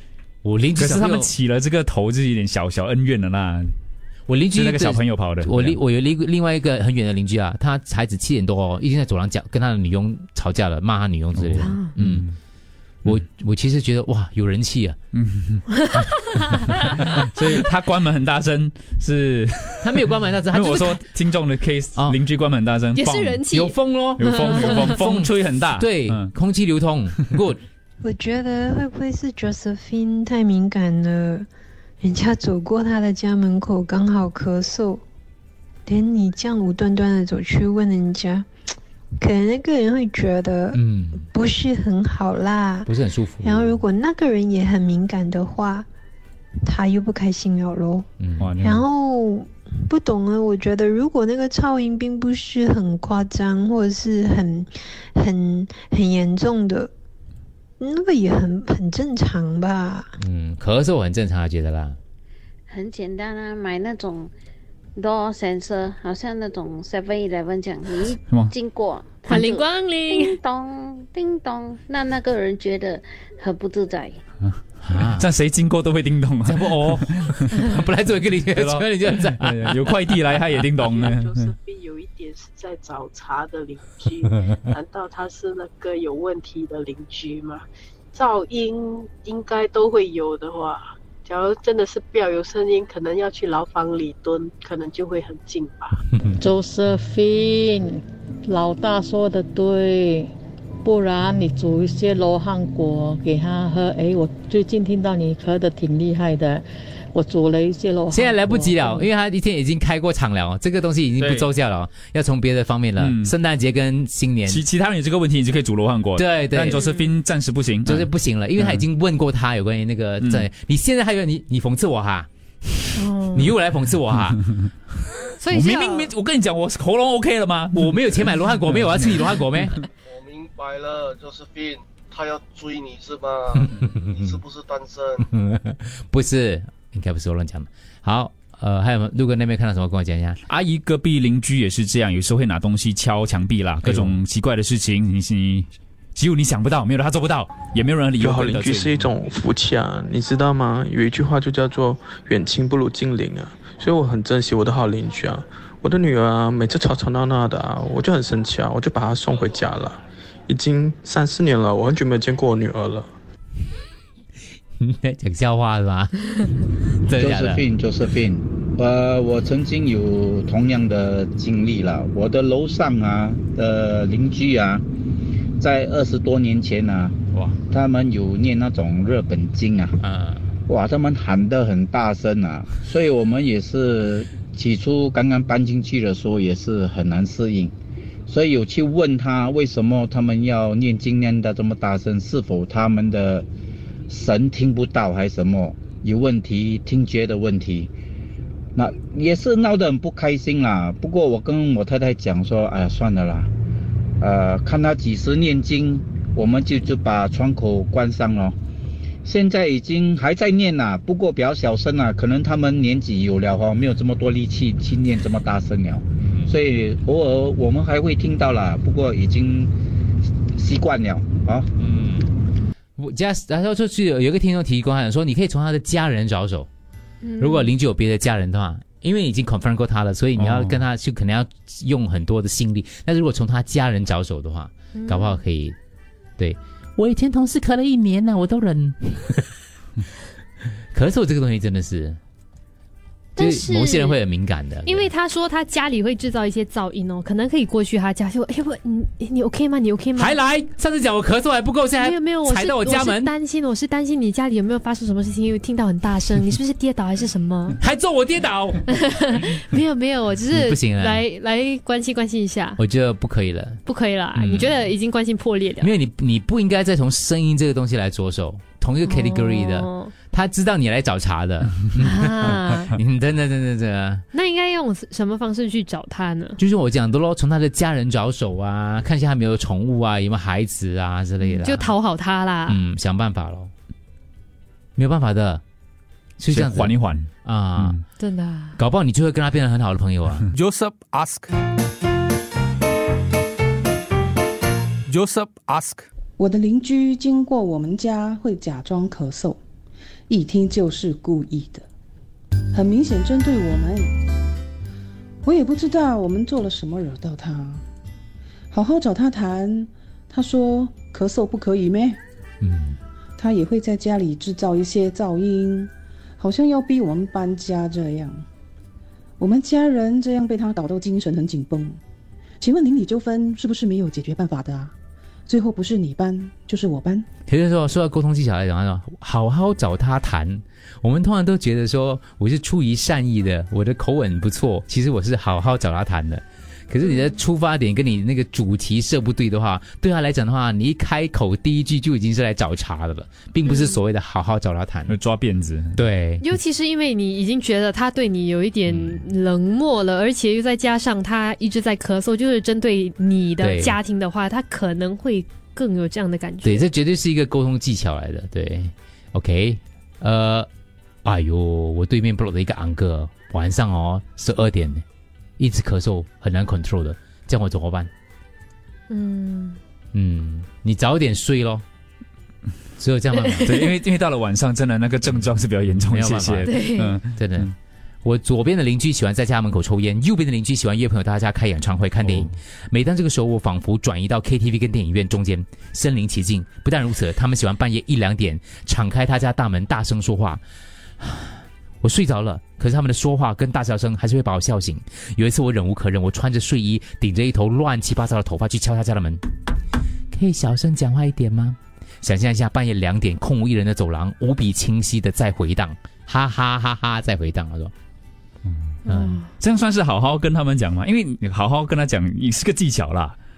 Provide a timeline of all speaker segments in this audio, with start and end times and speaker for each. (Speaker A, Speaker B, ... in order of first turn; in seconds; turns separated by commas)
Speaker A: 0.4-1.3, Speaker B: 0.8-3.7, Speaker A: 4.3-12.3, Speaker B: 4.5-5.8, Speaker B: 11.4-12.3, Speaker C: 11.6-12.0, Speaker A: 13.0-15.0, Speaker B: 15.1-15.6, Speaker C: 15.7-16.9, Speaker B: 17.1-23.4, Speaker A: 19.8-21.0, Speaker C: 22.9-24.9, Speaker A: 23.5-27.6, Speaker B: 24.2-26.3, Speaker D: 28.0-31.5, Speaker D: 32.0-35.0, Speaker D: 35.9-38.5, Speaker D: 39.2-42.9, Speaker A: 40.7-41.3, Speaker A: 42.9-43.8, Speaker D: 43.4-45.9, Speaker D: 46.6-48.1, Speaker A: 48.2-48.6, Speaker B: 48.4-48.9, Speaker D: 48.6-56.9, Speaker D: 57.8-60.1, Speaker A: 60.2-62.0, Speaker E: 62.7-64.3, Speaker E: 65.0-74.2, Speaker B: 68.3-68.5, Speaker C: 69.3-70.4, Speaker A: 74.8-75.3, Speaker B: 75.0-77.7, Speaker A: 76.5-80.0, Speaker B: 78.5-81.5, Speaker F: 80.8-96.1, Speaker G: 96.4-109.1, Speaker A: 108.1-114.6, Speaker B: 111.2-111.5, Speaker B: 113.0-113.3, Speaker B: 114.5-118.8, Speaker A: 116.2-116.9, Speaker C: 116.7-117.2, Speaker A: 117.8-125.3, Speaker C: 123.0-123.5, Speaker C: 125.4-126.1, Speaker B: 125.5-128.0, Speaker A: 127.7-129.8, Speaker H: 130.1-135.2, Speaker A: 133.6-134.4, Speaker A: 135.2-140.4, Speaker B: 140.5-149.1, Speaker A: 143.8-144.2, Speaker I: 148.2-163.1, Speaker A: 164.8-167.7, Speaker J: 167.2-174.8, Speaker J: 175.6-177.2, Speaker A: 177.3-177.6, Speaker J: 177.7-180.0, Speaker A: 180.0-180.5, Speaker J: 180.7-187.8, Speaker J: 188.3-193.5, Speaker J: 194.1-197.9, Speaker J: 198.8-203.5, Speaker J: 204.2-208.6, Speaker J: 209.2-219.7, Speaker A: 216.2-216.6, Speaker J: 220.6-221.7, Speaker A: 221.8-222.3, Speaker A: 223.0-226.7, Speaker C: 227.2-227.7, Speaker A: 227.4-235.8, Speaker B: 230.4-230.8, Speaker C: 234.9-235.4, Speaker A: 236.4-239.5, Speaker A: 240.9-242.2, Speaker C: 243.4-244.2, Speaker A: 243.4-245.1, Speaker C: 244.8-250.4, Speaker A: 250.2-253.3, Speaker C: 252.0-257.8, Speaker A: 257.8-258.9, Speaker C: 258.9-262.8, Speaker A: 260.5-261.2, Speaker A: 262.8-263.8, Speaker C: 263.9-265.9, Speaker A: 264.4-264.8, Speaker A: 265.8-274.2, Speaker C: 269.0-270.1, Speaker C: 272.0-273.0, Speaker C: 274.3-276.6, Speaker A: 276.6-281.9, Speaker C: 281.4-282.8, Speaker A: 282.7-283.7, Speaker A: 285.0-285.6, Speaker A: 286.4-288.0, Speaker B: 286.5-288.0, Speaker C: 288.2-288.8, Speaker A: 288.8-290.5, Speaker K: 290.5-291.5, Speaker K: 295.1-296.1, Speaker L: 296.4-299.6, Speaker L: 300.3-301.9, Speaker L: 302.7-304.1, Speaker L: 305.4-307.8, Speaker L: 308.7-312.2, Speaker A: 312.6-313.0, Speaker L: 313.4-318.4, Speaker L: 319.4-322.0, Speaker L: 322.6-324.9, Speaker L: 325.5-327.3, Speaker A: 327.5-345.1, Speaker B: 345.1-346.0, Speaker A: 345.9-346.4, Speaker C: 346.4-356.9, Speaker A: 348.9-349.2, Speaker A: 353.6-354.0, Speaker A: 356.6-360.7, Speaker A: 361.2-365.0, Speaker A: 365.6-368.1, Speaker C: 369.1-369.8, Speaker A: 370.1-371.8, Speaker A: 373.0-373.8, Speaker B: 373.6-377.7, Speaker A: 376.0-376.8, Speaker C: 376.7-377.2, Speaker A: 377.3-377.7, Speaker A: 378.2-390.6, Speaker B: 382.2-382.5, Speaker A: 391.2-399.4, Speaker A: 400.3-407.9, Speaker A: 409.1-409.4, Speaker C: 409.1-409.5, Speaker B: 409.6-413.4